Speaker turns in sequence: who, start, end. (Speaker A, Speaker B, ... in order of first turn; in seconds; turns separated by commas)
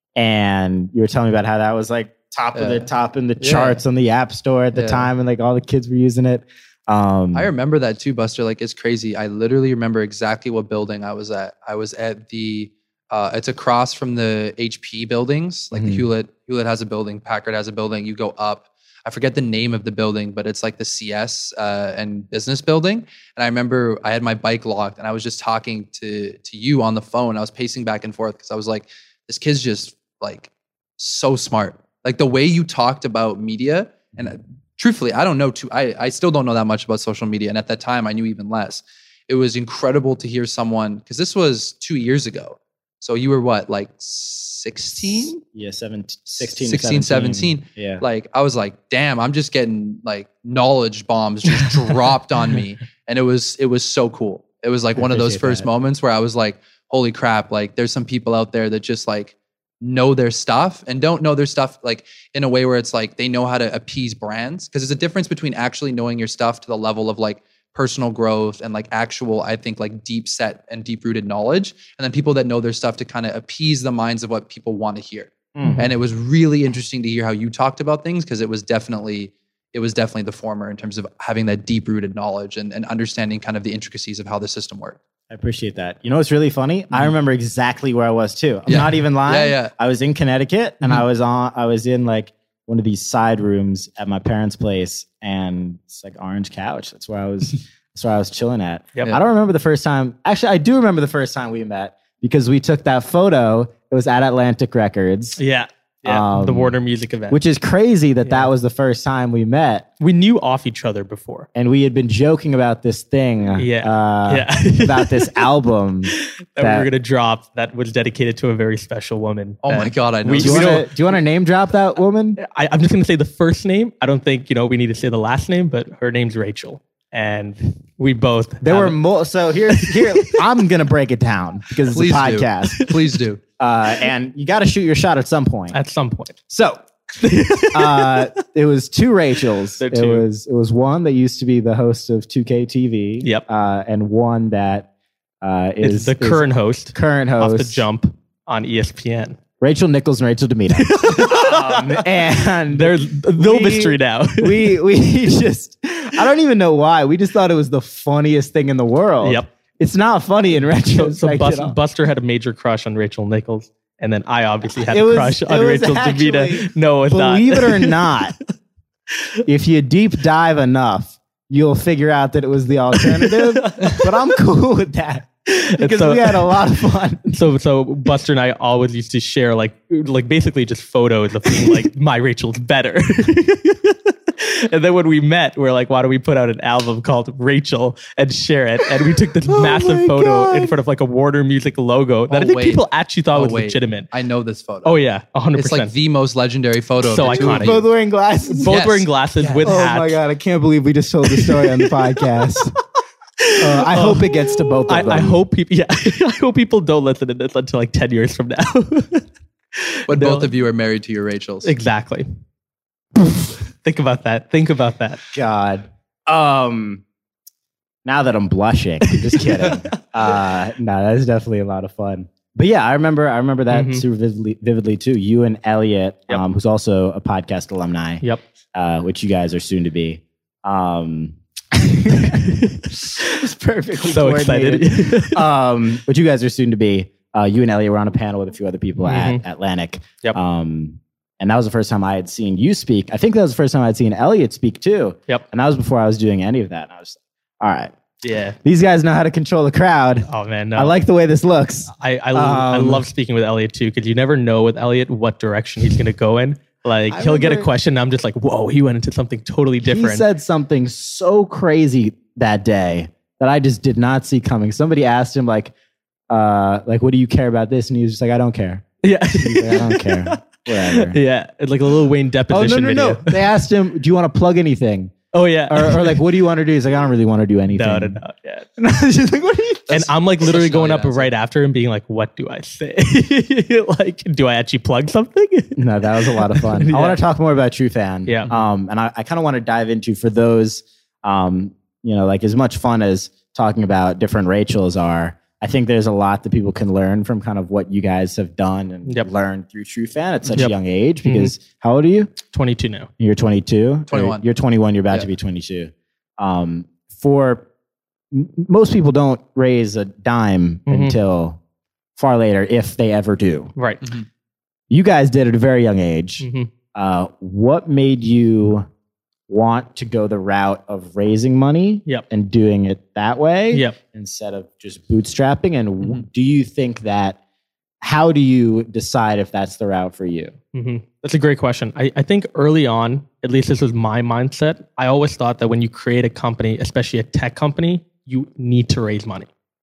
Speaker A: 0.1-7.5, Speaker B: 2.5-2.9, Speaker B: 3.4-3.8, Speaker B: 4.7-5.1, Speaker B: 7.3-45.4, Speaker A: 15.7-16.1, Speaker A: 45.4-48.0, Speaker B: 46.3-85.0, Speaker C: 51.5-52.0, Speaker A: 55.0-55.7, Speaker A: 75.5-75.9, Speaker A: 85.3-105.4, Speaker B: 88.7-89.7, Speaker C: 105.4-107.4, Speaker A: 106.0-106.8, Speaker A: 107.3-109.9, Speaker C: 108.2-108.5, Speaker C: 110.0-111.5, Speaker A: 111.5-116.9, Speaker C: 113.6-115.5, Speaker C: 116.1-120.9, Speaker B: 119.6-120.8, Speaker A: 120.3-122.4, Speaker C: 122.4-129.0, Speaker A: 128.6-132.9, Speaker C: 129.7-130.4, Speaker B: 131.9-133.4, Speaker A: 133.6-135.8, Speaker C: 135.7-136.4, Speaker A: 136.5-136.8, Speaker C: 137.2-138.3, Speaker A: 137.7-144.9, Speaker C: 139.8-140.3, Speaker A: 145.4-147.9, Speaker C: 145.8-149.4, Speaker A: 149.6-161.8, Speaker C: 150.7-154.8, Speaker C: 159.2-159.5, Speaker C: 160.8-168.2, Speaker A: 164.7-168.3, Speaker A: 169.4-177.4, Speaker C: 173.0-174.2, Speaker C: 175.5-176.5, Speaker C: 177.3-194.1, Speaker A: 189.4-190.8, Speaker B: 192.3-195.0, Speaker C: 194.8-195.9, Speaker B: 195.5-197.8, Speaker C: 197.0-197.8, Speaker A: 197.2-198.8, Speaker C: 198.5-200.2, Speaker B: 198.7-199.7, Speaker A: 199.6-202.8, Speaker C: 201.3-202.7, Speaker C: 203.4-210.5, Speaker A: 203.6-205.4, Speaker B: 210.1-211.7, Speaker C: 211.6-212.2, Speaker C: 213.2-215.2, Speaker A: 215.3-217.0, Speaker A: 218.0-247.9, Speaker C: 219.3-219.8, Speaker C: 223.7-224.0, Speaker C: 232.2-232.9, Speaker C: 234.0-235.4, Speaker C: 239.0-239.4, Speaker C: 248.2-248.6, Speaker A: 248.6-253.1, Speaker C: 250.3-250.9, Speaker C: 251.9-260.2, Speaker A: 257.1-257.7, Speaker A: 259.8-265.7, Speaker A: 266.3-271.2, Speaker C: 269.0-273.4, Speaker A: 272.5-275.1, Speaker C: 275.3-276.2, Speaker A: 275.7-278.2, Speaker C: 277.7-278.7, Speaker A: 278.8-279.9, Speaker B: 279.9-281.3, Speaker C: 279.9-287.2, Speaker A: 285.8-302.3, Speaker C: 288.2-288.5, Speaker C: 300.5-301.5, Speaker C: 302.5-303.1, Speaker A: 303.2-307.6, Speaker B: 304.1-304.4, Speaker A: 308.3-311.6, Speaker C: 310.9-311.2, Speaker A: 312.1-313.7, Speaker C: 313.8-314.0, Speaker A: 314.9-318.9, Speaker C: 316.4-316.7, Speaker A: 319.5-327.4, Speaker C: 323.7-323.9, Speaker A: 328.0-330.5, Speaker C: 330.7-339.5